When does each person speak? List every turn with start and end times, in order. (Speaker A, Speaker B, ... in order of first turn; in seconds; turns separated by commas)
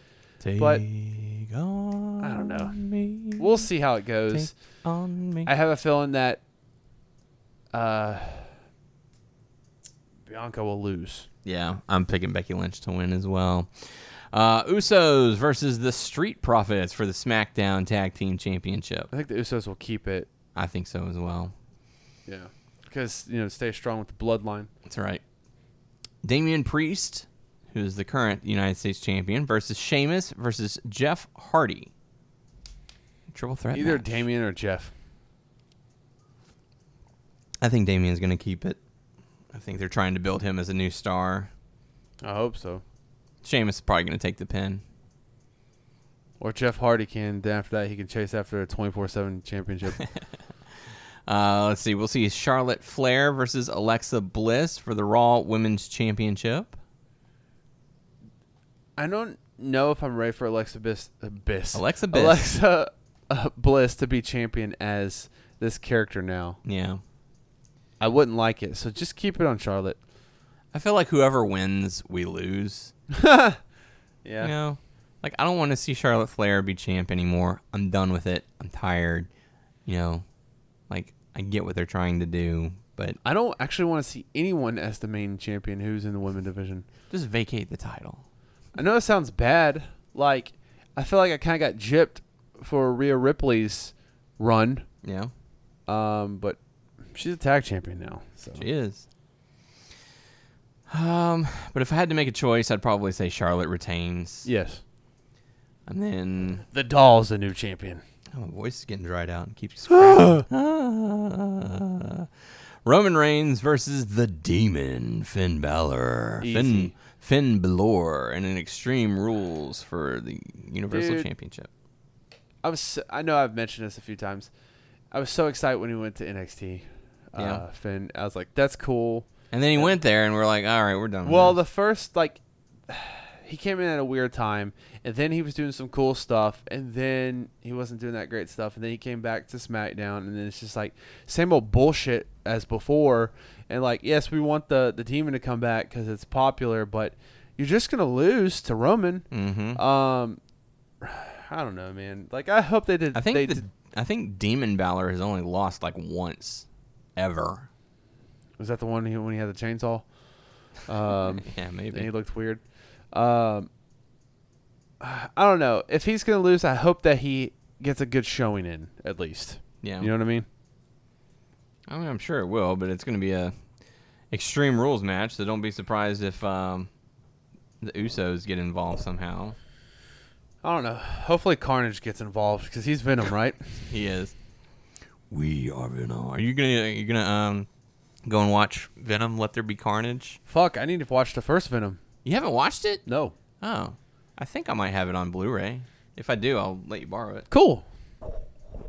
Speaker A: 0.4-3.6, Speaker B: 0.6-0.8, Speaker B: 2.2-2.8, Speaker B: 3.3-4.5, Speaker A: 4.3-5.5, Speaker B: 5.4-6.4, Speaker B: 7.7-8.5, Speaker B: 10.3-11.3, Speaker A: 11.4-19.1, Speaker B: 19.1-20.3, Speaker A: 20.5-21.5, Speaker B: 22.3-24.7, Speaker A: 24.9-25.2, Speaker A: 26.2-31.9, Speaker A: 33.3-34.2, Speaker B: 33.7-34.9, Speaker A: 37.6-38.8, Speaker A: 39.5-41.5, Speaker B: 42.2-42.8, Speaker A: 43.4-44.8, Speaker B: 46.4-50.0, Speaker A: 51.3-56.7, Speaker B: 59.0-66.6, Speaker A: 61.7-62.4, Speaker A: 66.6-67.0, Speaker B: 68.0-70.0, Speaker A: 70.7-72.9, Speaker B: 73.1-73.6, Speaker B: 74.2-74.5, Speaker A: 74.4-79.3, Speaker A: 79.8-80.2, Speaker A: 80.9-83.2, Speaker B: 83.2-86.8, Speaker A: 87.1-88.2, Speaker B: 88.8-94.8, Speaker A: 95.0-95.3, Speaker B: 95.9-96.6, Speaker B: 97.1-98.7, Speaker A: 98.5-99.0, Speaker A: 100.9-104.5, Speaker B: 104.4-104.8, Speaker A: 105.9-106.6, Speaker B: 106.7-108.0, Speaker A: 108.3-112.3, Speaker B: 109.9-110.4, Speaker A: 112.8-121.7, Speaker B: 116.4-116.9, Speaker B: 120.9-121.3, Speaker B: 122.6-124.5, Speaker B: 125.1-129.9, Speaker A: 127.3-127.6, Speaker A: 129.5-131.6, Speaker B: 131.2-150.4, Speaker A: 149.3-149.8, Speaker B: 151.0-153.6, Speaker A: 153.1-157.7, Speaker B: 158.6-160.1, Speaker B: 160.8-163.7, Speaker A: 161.2-162.1, Speaker B: 165.0-170.4, Speaker A: 169.8-170.1, Speaker A: 171.9-173.5, Speaker A: 174.3-176.9, Speaker A: 177.8-179.6, Speaker B: 180.6-183.8, Speaker A: 183.9-184.3, Speaker A: 185.3-187.7, Speaker A: 188.2-190.4, Speaker B: 190.5-192.0, Speaker A: 192.2-193.0, Speaker B: 193.1-193.3, Speaker A: 193.6-197.5, Speaker B: 197.5-197.8